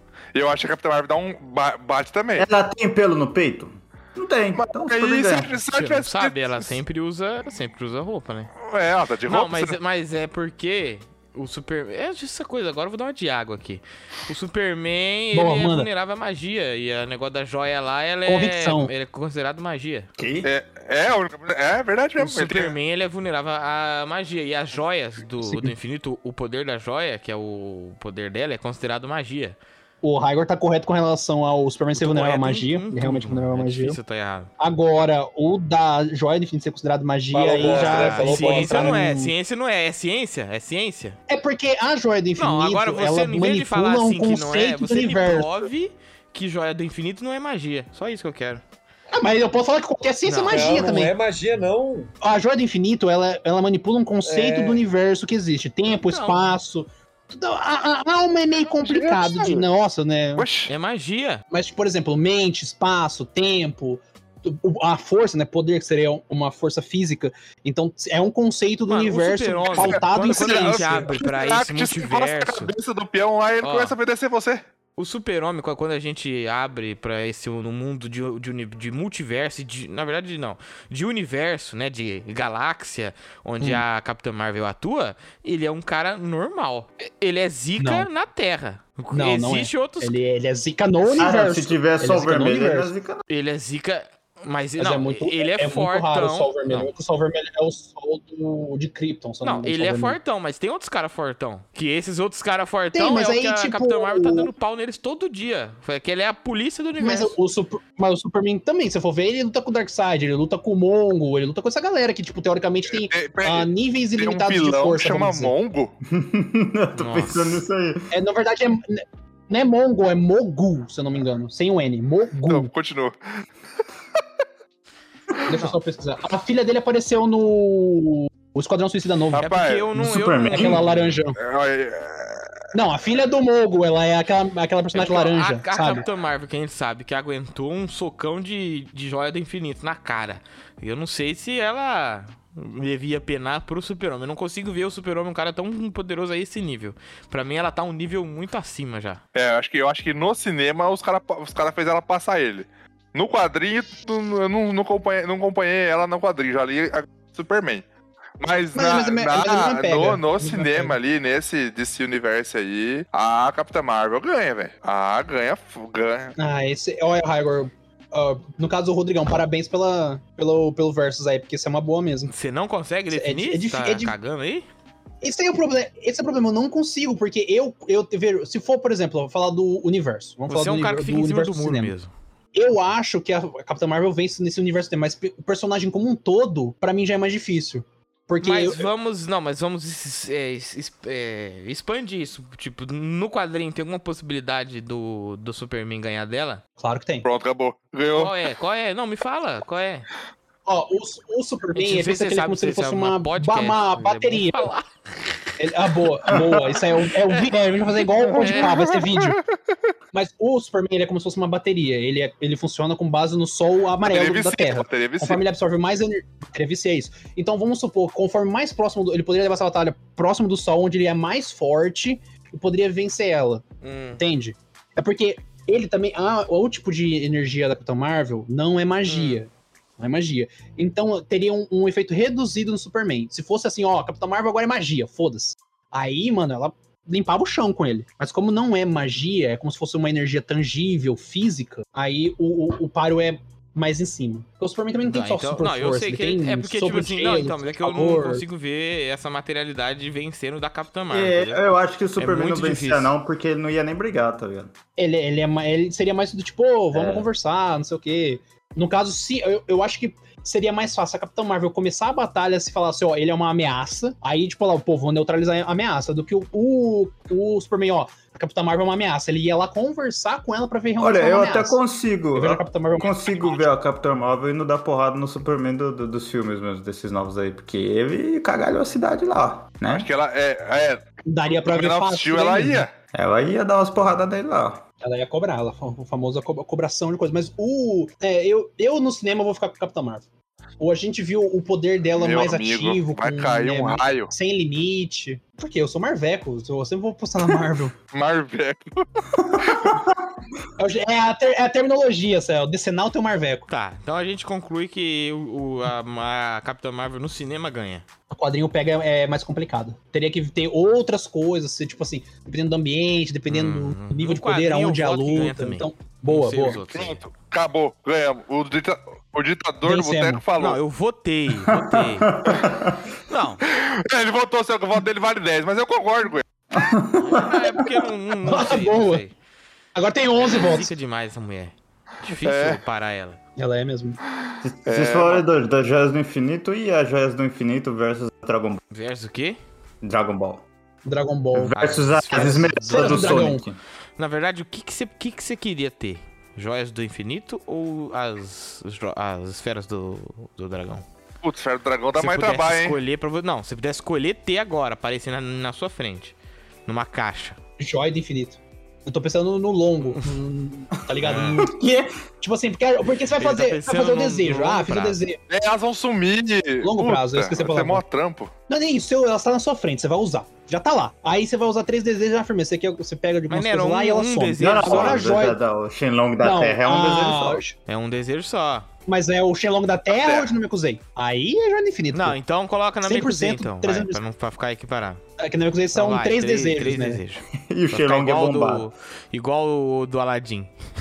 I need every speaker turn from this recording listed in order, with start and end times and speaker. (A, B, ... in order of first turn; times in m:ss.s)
0:00.4-0:02.5 A
0:02.4-0:05.5 B
0:04.6-0:06.7 A
0:05.7-0:08.5 C
0:08.6-0:09.8 A
0:09.3-0:20.1 C
0:15.3-0:15.9 D
0:18.3-0:18.9 D
0:20.2-0:20.5 B
0:20.4-0:22.8 A
0:22.2-0:29.6 C
0:25.4-0:25.7 D
0:30.0-0:34.0 D
0:32.0-0:34.5 C
0:34.6-0:39.3 D
0:37.3-0:39.1 E
0:37.6-0:41.2 C
0:41.3-0:45.5 D
0:42.4-0:48.6 C
0:49.1-0:51.2 D
0:50.3-0:50.7 C
0:50.5-0:52.1 E
0:52.2-1:00.4 D
0:54.2-0:54.9 E
0:55.9-0:56.5 C
0:58.8-0:59.6 A
1:00.4-1:00.7 A
1:00.7-1:01.4 C
1:01.5-1:11.2 D
1:08.9-1:12.7 C
1:09.7-1:14.6 A
1:13.6-1:14.0 C
1:15.0-1:30.1 C
1:27.8-1:28.1 D
1:29.1-1:32.9 D
1:31.1-1:33.2 B
1:33.3-1:36.9 C
1:34.8-1:40.2 D
1:39.4-1:47.3 C
1:42.9-1:44.5 D
1:47.0-1:55.5 D
1:52.9-1:55.9 A
1:56.1-1:58.1 B
1:57.0-1:57.6 C
1:58.1-2:02.7 D
2:02.5-2:03.2 A
2:05.4-2:09.4 D
2:09.3-2:09.9 A
2:09.4-2:11.2 C
2:10.0-2:10.8 B
2:10.5-2:11.4 D
2:11.4-2:12.5 A
2:12.7-2:16.0 D
2:14.9-2:29.2 C
2:29.4-2:37.8 A
2:38.4-2:46.3 A
2:38.8-2:41.0 D
2:46.4-2:52.3 D
2:52.3-2:54.7 C
2:53.1-2:54.1 D
2:55.2-3:01.9 D
3:00.5-3:02.1 C
3:02.5-3:08.9 D
3:08.4-3:16.6 C
3:16.8-3:17.3 D
3:17.2-3:18.3 A
3:18.2-3:20.1 C
3:20.7-3:24.7 D
3:21.8-3:25.5 C
3:25.6-3:29.4 D
3:26.3-3:26.8 B
3:28.2-3:28.8 C
3:28.4-3:29.4 A
3:30.1-3:43.6 D
3:34.0-3:35.4 A
3:43.8-3:44.2 C
3:44.2-4:08.4 D
3:49.1-3:49.4 C
4:05.0-4:11.6 C
4:11.1-4:14.7 B
4:12.2-4:13.2 C
4:15.0-4:31.8 D
4:16.9-4:17.3 B
4:31.0-4:40.1 B
4:32.4-4:33.7 D
4:39.9-4:41.0 A
4:41.3-4:42.9 D
4:41.7-4:42.9 A
4:43.1-4:44.8 B
4:45.0-4:50.2 D
4:50.8-4:57.9 D
4:52.2-4:54.3 A
4:58.1-4:58.8 A
4:59.5-5:00.1 B
4:59.6-5:00.0 A
5:00.8-5:03.7 D
5:03.7-5:08.0 C
5:08.3-5:16.8 D
5:13.5-5:17.2 C
5:16.9-5:20.8 A
5:19.8-5:20.4 D
5:20.6-5:22.4 C
5:21.7-5:23.1 B
5:23.3-5:23.6 C
5:23.7-5:26.4 A
5:26.7-5:28.1 B
5:27.2-5:29.4 C
5:28.4-5:29.2 D
5:30.0-5:30.9 D
5:30.4-5:33.4 C
5:32.3-5:32.8 A
5:33.6-5:34.2 D
5:34.6-5:38.8 B
5:34.9-5:35.4 A
5:38.9-5:39.6 C
5:40.0-5:40.6 B
5:41.0-5:41.8 D
5:41.5-5:43.8 B
5:41.8-5:43.6 C
5:42.4-5:43.6 D
5:44.2-5:51.0 C
5:51.4-5:53.0 A
5:52.2-5:57.6 C
5:57.8-6:01.8 D
6:01.1-6:02.2 B
6:01.2-6:01.6 C
6:02.4-6:05.4 D
6:03.4-6:05.2 C
6:05.5-6:08.5 A
6:06.8-6:08.0 D
6:08.7-6:15.6 D
6:13.5-6:15.3 C
6:14.6-6:17.6 B
6:16.4-6:17.8 D
6:17.9-6:18.9 C
6:19.1-6:22.4 D
6:20.1-6:20.6 A
6:22.1-6:25.2 C
6:23.0-6:24.2 D
6:25.4-6:27.2 D
6:25.9-6:30.7 C
6:27.6-6:28.9 B